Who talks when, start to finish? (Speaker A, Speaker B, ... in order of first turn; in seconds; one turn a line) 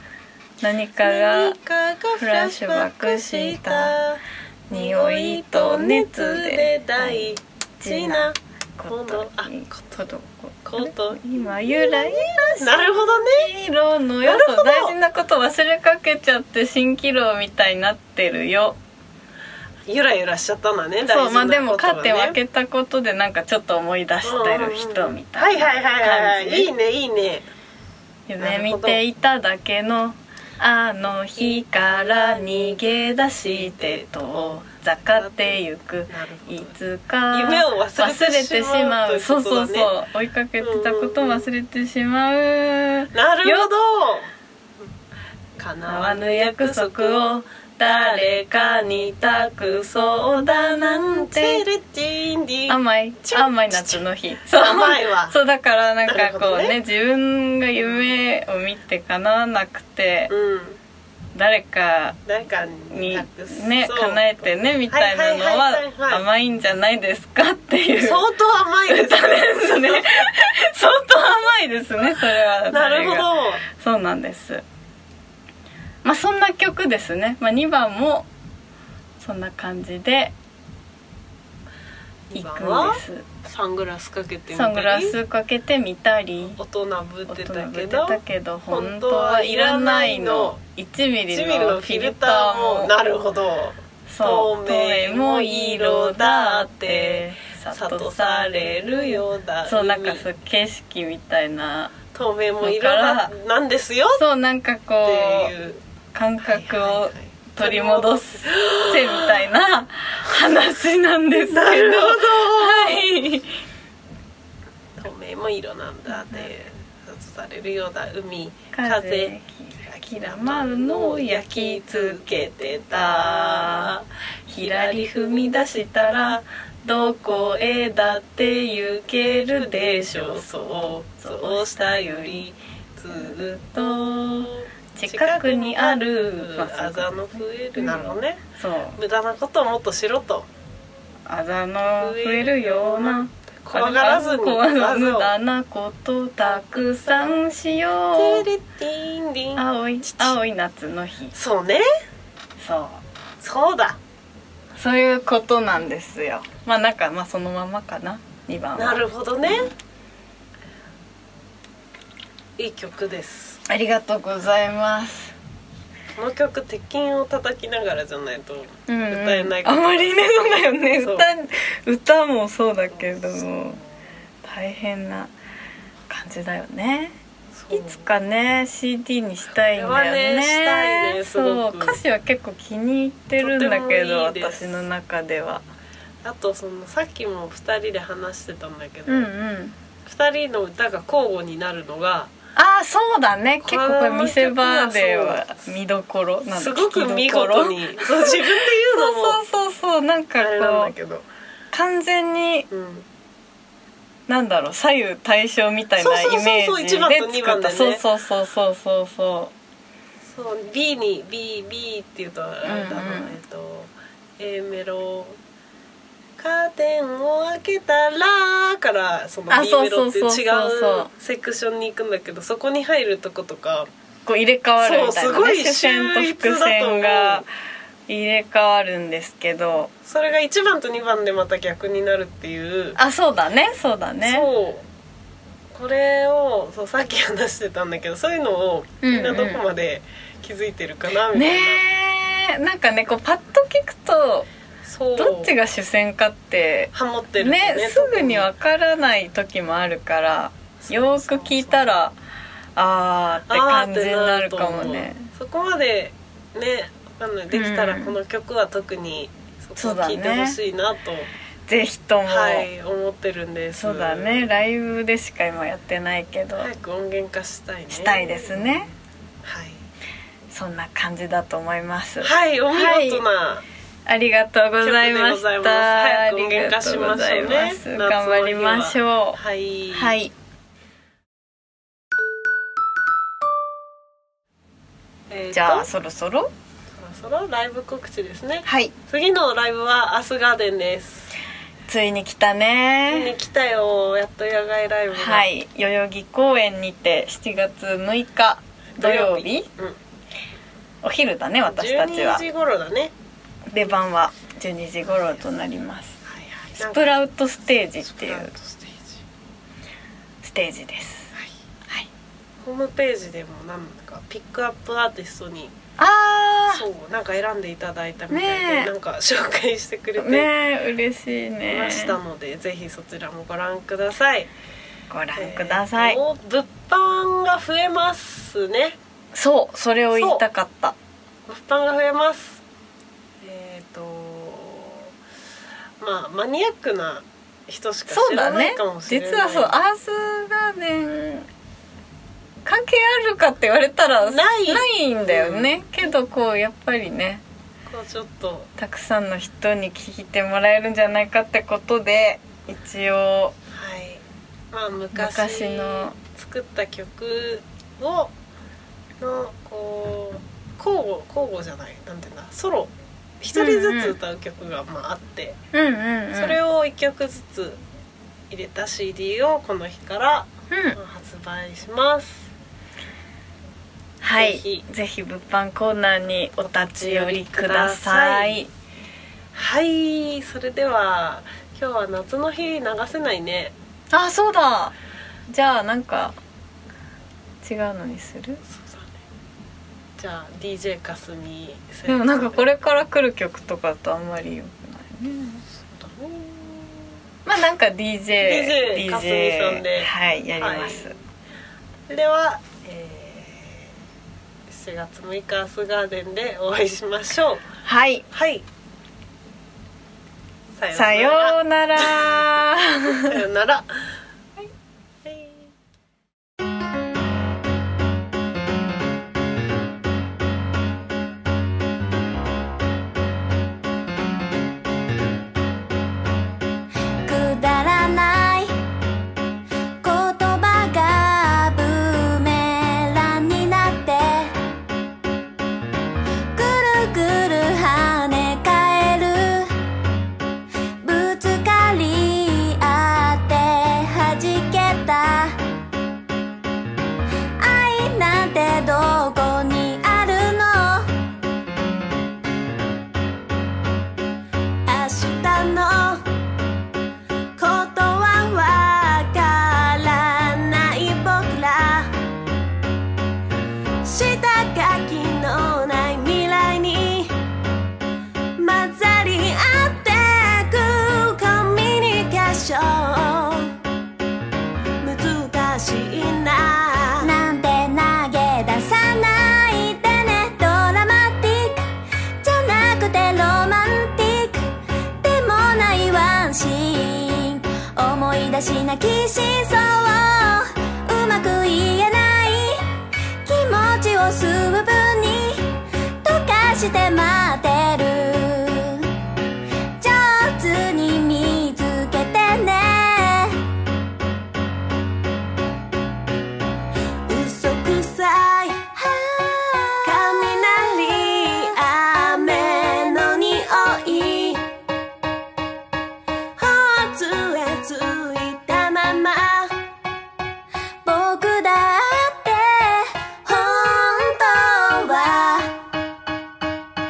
Speaker A: 0.6-1.6
Speaker B: 1.0-8.4
Speaker A: 2.2-3.9
Speaker A: 4.7-18.8
Speaker B: 8.9-10.0
Speaker B: 10.7-13.6
Speaker B: 14.2-15.0
Speaker B: 19.9-22.4
Speaker A: 21.0-26.7
Speaker B: 24.2-27.5
Speaker A: 28.3-43.7
Speaker B: 28.4-29.0
Speaker B: 31.4-32.9
Speaker B: 33.4-36.8
Speaker B: 37.3-39.9
Speaker B: 40.6-41.5
Speaker B: 43.1-44.3
Speaker B: 45.6-55.4
Speaker A: 45.9-51.6
Speaker A: 52.7-60.3
Speaker B: 56.1-56.8
Speaker B: 60.3-60.8
Speaker A: 61.4-62.2
Speaker B: 62.2-66.2
Speaker A: 62.9-68.2
Speaker B: 68.0-70.3
Speaker A: 68.9-74.6
Speaker B: 72.7-73.6
Speaker A: 76.0-78.3
Speaker A: 79.2-80.3
Speaker B: 82.3-85.2
Speaker A: 82.3-83.3
Speaker A: 84.5-86.6
Speaker B: 86.6-90.6
Speaker A: 87.3-92.9
Speaker B: 91.3-100.3
Speaker A: 94.1-102.0
Speaker B: 102.1-104.2
Speaker A: 102.6-103.3
Speaker A: 104.2-105.5
Speaker B: 105.0-105.8
Speaker A: 106.1-113.5
Speaker B: 106.4-109.5
Speaker B: 111.4-113.0
Speaker B: 115.0-126.4
Speaker A: 116.2-116.5
Speaker A: 118.7-123.9
Speaker A: 124.5-132.5
Speaker B: 127.1-128.1
Speaker B: 129.1-138.4
Speaker A: 133.1-139.0
Speaker B: 139.0-140.5
Speaker A: 141.3-148.4
Speaker B: 142.0-145.3
Speaker B: 146.4-147.4
Speaker B: 148.1-150.4
Speaker A: 149.6-151.3
Speaker B: 151.3-151.9
Speaker A: 152.6-153.0
Speaker B: 153.4-154.0
Speaker A: 154.8-159.0
Speaker B: 158.8-159.7
Speaker B: 162.6-163.6
Speaker A: 163.7-165.3
Speaker B: 166.2-171.3
Speaker A: 168.9-173.8
Speaker A: 174.4-175.3
Speaker A: 176.1-177.1
Speaker B: 177.5-178.1
Speaker A: 177.7-185.6
Speaker B: 179.7-182.0
Speaker B: 183.4-184.9
Speaker B: 186.2-189.3
Speaker A: 189.1-189.8
Speaker B: 190.1-192.3
Speaker A: 192.6-200.9
Speaker B: 193.6-195.6
Speaker B: 196.5-199.4
Speaker B: 200.4-201.3
Speaker A: 201.7-202.7
Speaker B: 202.7-203.1
Speaker A: 204.3-209.5
Speaker B: 206.0-208.0
Speaker B: 210.2-215.4
Speaker A: 212.6-213.4
Speaker B: 216.4-223.9
Speaker A: 219.5-221.1
Speaker A: 224.3-227.5
Speaker B: 224.8-227.5
Speaker A: 228.1-229.9
Speaker B: 230.1-233.0
Speaker A: 233.0-234.5
Speaker B: 234.2-234.9
Speaker B: 235.7-241.9
Speaker A: 239.0-239.6
Speaker A: 241.3-244.5
Speaker B: 244.8-245.6
Speaker A: 245.2-252.2
Speaker B: 246.9-248.5
Speaker B: 250.8-251.9
Speaker A: 252.8-255.3
Speaker B: 253.5-261.3
Speaker A: 257.5-258.2
Speaker A: 259.8-260.6
Speaker A: 261.7-262.7
Speaker B: 262.3-264.5
Speaker A: 263.8-266.7
Speaker B: 266.6-268.6
Speaker A: 267.9-268.9
Speaker B: 269.4-269.8
Speaker A: 270.5-273.2
Speaker B: 272.2-273.6
Speaker A: 274.1-279.4
Speaker B: 274.8-280.2
Speaker A: 279.9-280.3
Speaker B: 285.3-285.9
Speaker A: 285.5-286.5
Speaker B: 286.9-291.3
Speaker A: 288.6-288.9
Speaker A: 291.9-293.3
Speaker B: 293.1-295.5
Speaker A: 295.1-299.7
Speaker B: 299.0-300.0
Speaker A: 301.0-302.4
Speaker B: 301.7-303.1
Speaker A: 303.7-306.2
Speaker B: 306.3-307.2
Speaker A: 306.8-308.5
Speaker B: 308.0-309.2
Speaker A: 310.4-311.3
Speaker B: 312.6-315.7
Speaker A: 316.0-316.9
Speaker B: 316.7-320.5
Speaker A: 318.3-318.9
Speaker A: 320.2-322.1
Speaker B: 321.7-324.5
Speaker A: 325.1-326.2
Speaker B: 325.4-329.0
Speaker A: 329.3-331.0
Speaker B: 330.1-330.4
Speaker B: 331.5-332.6
Speaker B: 333.4-335.1
Speaker B: 336.0-339.8
Speaker A: 338.1-341.5
Speaker A: 342.6-347.4
Speaker B: 344.2-345.7
Speaker B: 347.9-348.7
Speaker A: 348.8-353.6
Speaker B: 353.7-358.3
Speaker A: 355.1-356.2
Speaker B: 359.2-365.6
Speaker A: 363.5-364.2
Speaker A: 365.7-366.6
Speaker B: 366.3-367.8
Speaker B: 368.5-372.5
Speaker A: 370.7-371.0
Speaker A: 374.2-378.7
Speaker B: 374.3-374.9
Speaker B: 376.6-378.7
Speaker B: 379.5-383.7
Speaker A: 384.1-384.9
Speaker A: 385.5-386.4
Speaker A: 387.6-388.6
Speaker B: 388.7-389.2
Speaker B: 390.2-393.0
Speaker A: 392.1-395.6
Speaker B: 395.9-397.1
Speaker A: 397.5-401.1
Speaker B: 398.4-401.1
Speaker B: 402.1-403.9
Speaker B: 404.7-407.6
Speaker A: 407.9-408.2
Speaker B: 408.3-408.6
Speaker B: 410.8-412.3
Speaker A: 410.9-413.3
Speaker B: 413.2-414.1
Speaker B: 415.2-415.7
Speaker C: 427.2-428.8
Speaker C: 430.0-434.6
Speaker C: 436.5-439.8
Speaker C: 441.0-445.6
Speaker C: 447.6-451.1
Speaker C: 454.9-455.8
Speaker B: 455.8-456.1
Speaker C: 457.6-460.4
Speaker B: 460.4-461.7
Speaker C: 461.3-462.1
Speaker B: 464.1-467.3
Speaker B: 468.6-473.8
Speaker B: 475.0-477.3
Speaker C: 477.2-481.9
Speaker C: 482.4-484.7
Speaker C: 485.2-499.1
Speaker C: 500.0-503.6
Speaker C: 507.3-514.6
Speaker C: 516.6-519.7
Speaker C: 521.0-525.8